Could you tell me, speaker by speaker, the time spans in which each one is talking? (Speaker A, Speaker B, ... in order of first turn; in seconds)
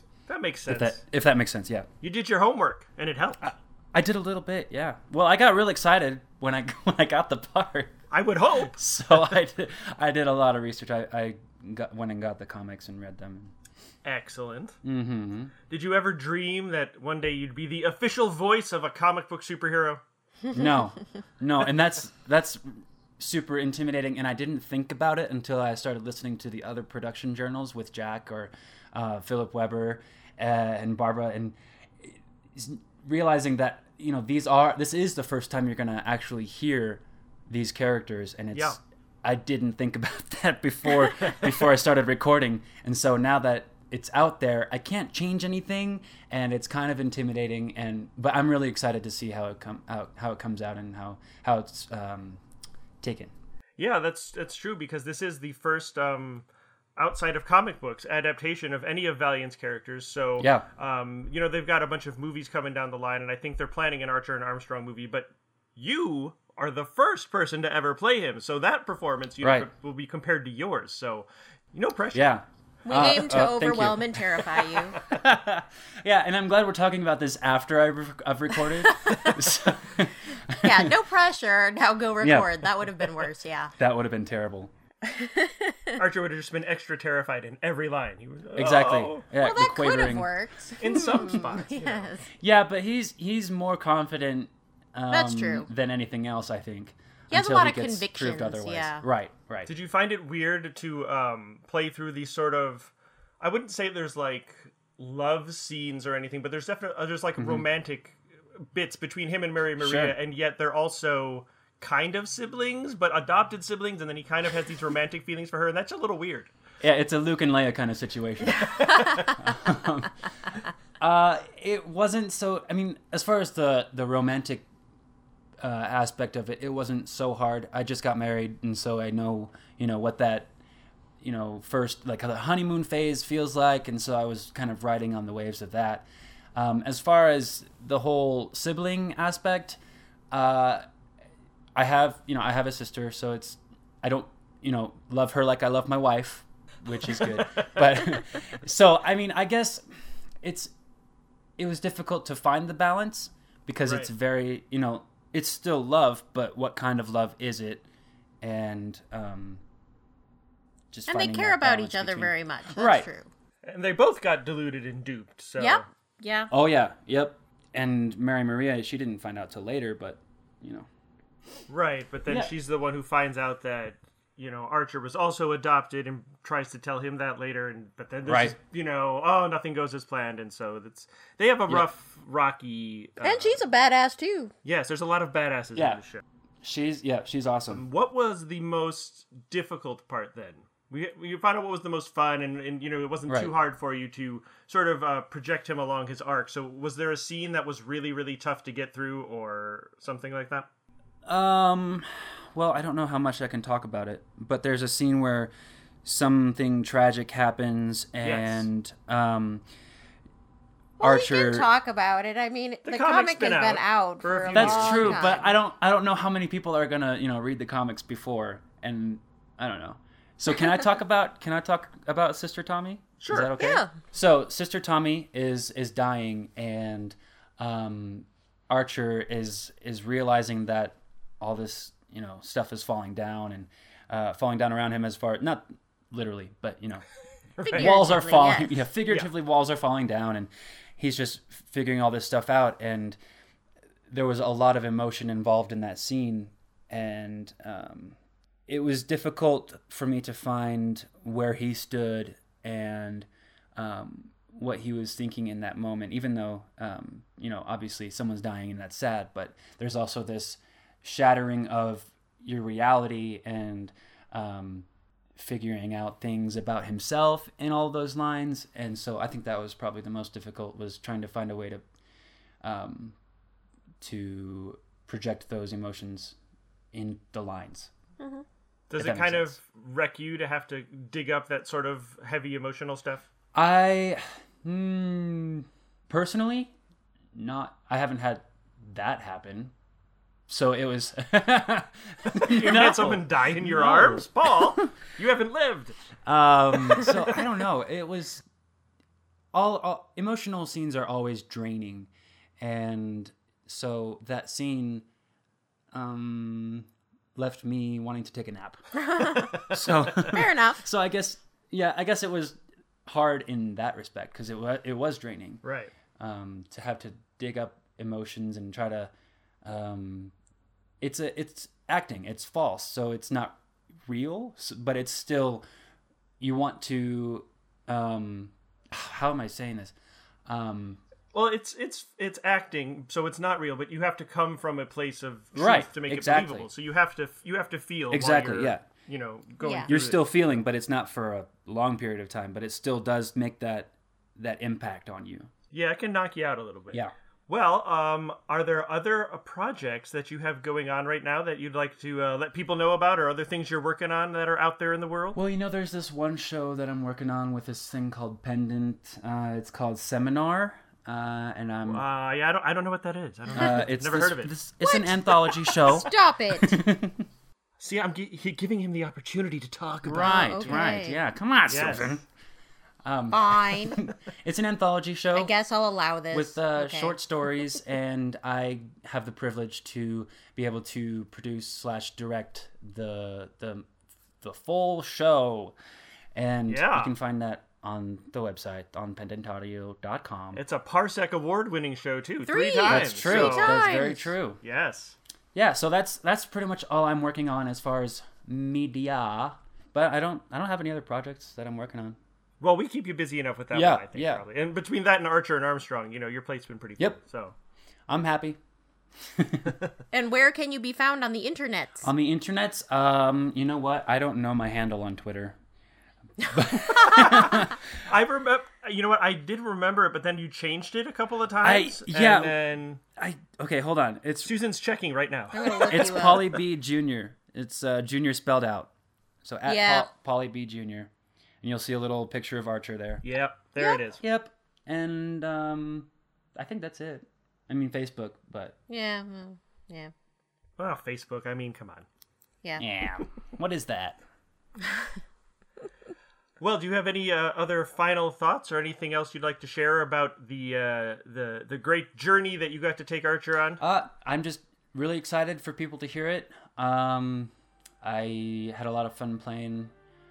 Speaker A: 0.3-1.0, 2.0-3.5, 8.1-9.3, 14.0-14.8, 15.7-20.0, 38.5-38.8, 53.8-56.5, 57.0-72.4, 86.0-89.3, 90.8-92.2, 99.7-108.2, 108.7-116.5, 118.8-119.3, 147.1-147.8, 153.8-154.1, 163.7-165.8, 171.7-183.6, 184.6-186.2, 187.7-200.7, 208.2-208.7, 212.8-215.4, 223.2-223.6, 237.6-237.9, 278.9-283.3, 292.3-296.0, 296.9-297.4, 309.7-310.1, 315.6-315.9, 331.3-340.2, 345.7-355.4, 361.9-364.5, 367.8-370.9, 371.7-372.2, 386.7-387.1, 390.5-393.8, 394.6-395.2, 402.6-407.5, 417.1-423.0, 424.4-426.1, 433.2-434.2, 440.8-442.1, 446.6-453.8
Speaker B: 0.7-1.9, 3.4-8.0, 8.8-13.5, 14.8-15.5, 20.5-52.4, 53.0-53.3, 60.4-60.7, 69.4-69.7, 72.1-80.9, 82.2-83.3, 83.8-84.7, 88.6-90.3, 90.9-91.5, 92.4-99.7, 107.4-107.7, 109.8-110.2, 116.8-120.1, 121.0-124.7, 125.6-130.5, 131.2-139.8, 140.3-140.8, 141.8-149.8, 150.4-150.7, 151.6-157.8, 158.4-159.6, 160.9-163.1, 166.5-170.9, 172.3-172.5, 178.3-178.6, 185.8-186.0, 186.6-187.8, 193.3-193.5, 201.3-205.5, 206.0-209.6, 211.0-211.7, 214.5-237.1, 237.7-243.2, 244.1-248.2, 248.7-271.8, 272.6-273.2, 274.0-276.4, 276.9-277.9, 279.0-279.6, 283.5-286.7, 287.4-289.7, 290.5-294.8, 296.2-298.4, 299.5-305.1, 305.9-308.8, 309.6-315.6, 316.2-319.1, 319.6-320.3, 321.0-325.6, 326.4-329.9, 330.5-331.0, 335.6-336.7, 338.1-338.9, 339.9-345.5, 355.4-362.0, 363.6-367.2, 370.0-372.2, 373.0-375.5, 376.3-383.9, 384.4-385.8, 386.4-390.6, 392.9-394.6, 395.6-402.2, 403.7-404.4, 408.1-408.6, 409.3-409.8, 412.0-415.6, 416.4-417.8, 421.6-422.6, 423.2-424.5, 425.9-428.9, 429.4-431.1, 431.6-433.2, 434.2-438.8, 442.8-444.2, 453.8-459.9
Speaker C: 72.8-75.0, 78.9-79.4, 80.6-83.7, 85.0-86.0, 89.4-92.3, 95.1-95.7, 97.3-99.0, 161.1-163.3, 165.6-166.5, 183.2-184.5, 211.0-215.5, 223.6-223.9, 237.6-238.9, 308.9-309.6, 310.3-310.8, 339.6-339.9, 364.8-366.8, 370.1-371.2, 373.3-374.0, 375.3-377.2, 392.5-394.4, 410.1-412.1, 425.5-426.6, 429.6-430.1, 438.9-440.1